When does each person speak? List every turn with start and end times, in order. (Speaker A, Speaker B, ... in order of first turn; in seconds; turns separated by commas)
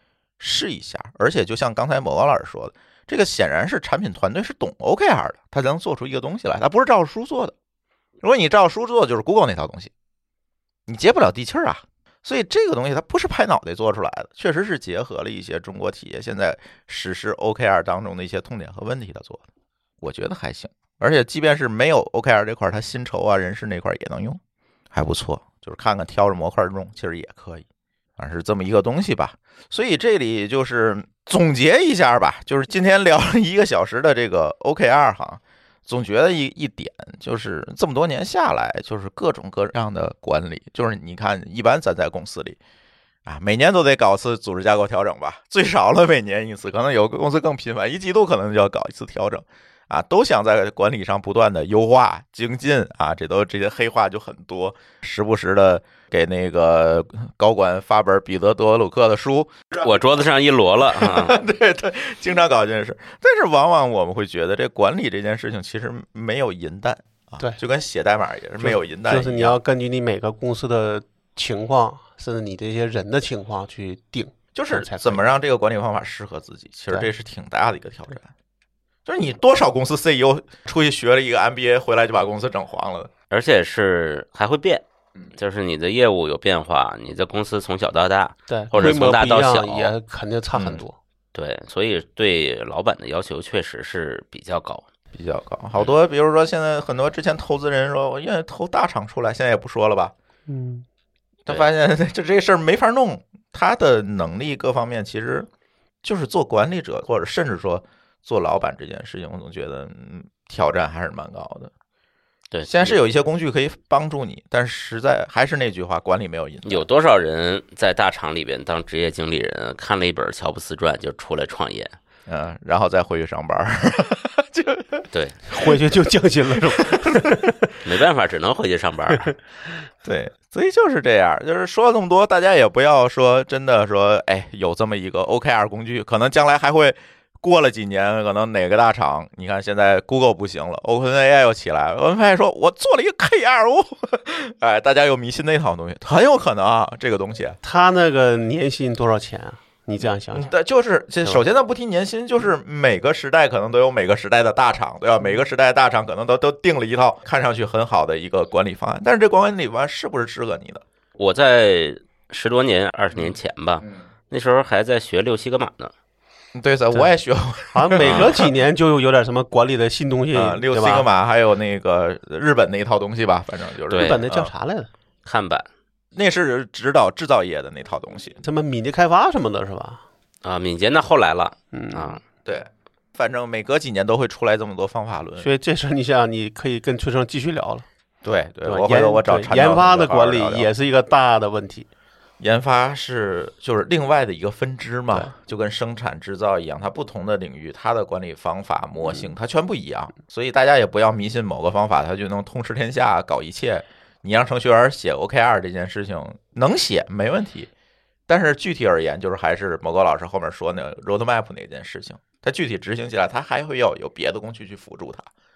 Speaker A: 0.4-7.5, Speaker A: 8.2-9.9, Speaker A: 10.9-19.4, Speaker A: 20.0-24.4, Speaker A: 24.9-27.6, Speaker A: 28.2-42.6, Speaker A: 43.2-60.2, Speaker B: 59.7-61.4, Speaker A: 60.8-69.6, Speaker C: 68.6-75.2, Speaker A: 74.5-78.3, Speaker A: 79.0-83.1, Speaker B: 83.3-84.8, Speaker B: 85.4-89.9, Speaker C: 88.5-91.0, Speaker A: 88.8-89.0, Speaker A: 90.5-90.8, Speaker B: 91.3-94.8, Speaker A: 95.1-100.1, Speaker C: 100.5-100.9, Speaker A: 101.5-105.5, Speaker A: 106.0-111.7, Speaker B: 112.5-113.0, Speaker A: 112.7-116.8, Speaker B: 116.7-122.0, Speaker A: 122.3-125.1, Speaker B: 125.1-125.4, Speaker C: 125.5-127.8, Speaker B: 127.8-129.4, Speaker A: 130.0-147.6, Speaker C: 147.6-150.5, Speaker A: 150.0-160.8, Speaker B: 161.2-165.9, Speaker A: 163.2-164.0, Speaker A: 166.5-168.5, Speaker C: 167.7-171.1, Speaker B: 168.0-168.3, Speaker A: 170.3-174.5, Speaker B: 173.9-174.2, Speaker C: 174.0-174.9, Speaker B: 175.2-175.7, Speaker A: 176.1-178.4, Speaker C: 178.4-180.0, Speaker B: 180.4-182.2, Speaker C: 181.7-182.2, Speaker A: 182.4-185.5, Speaker C: 185.4-187.8, Speaker A: 188.2-190.7, Speaker C: 188.6-191.9, Speaker A: 192.4-207.7, Speaker A: 208.3-215.3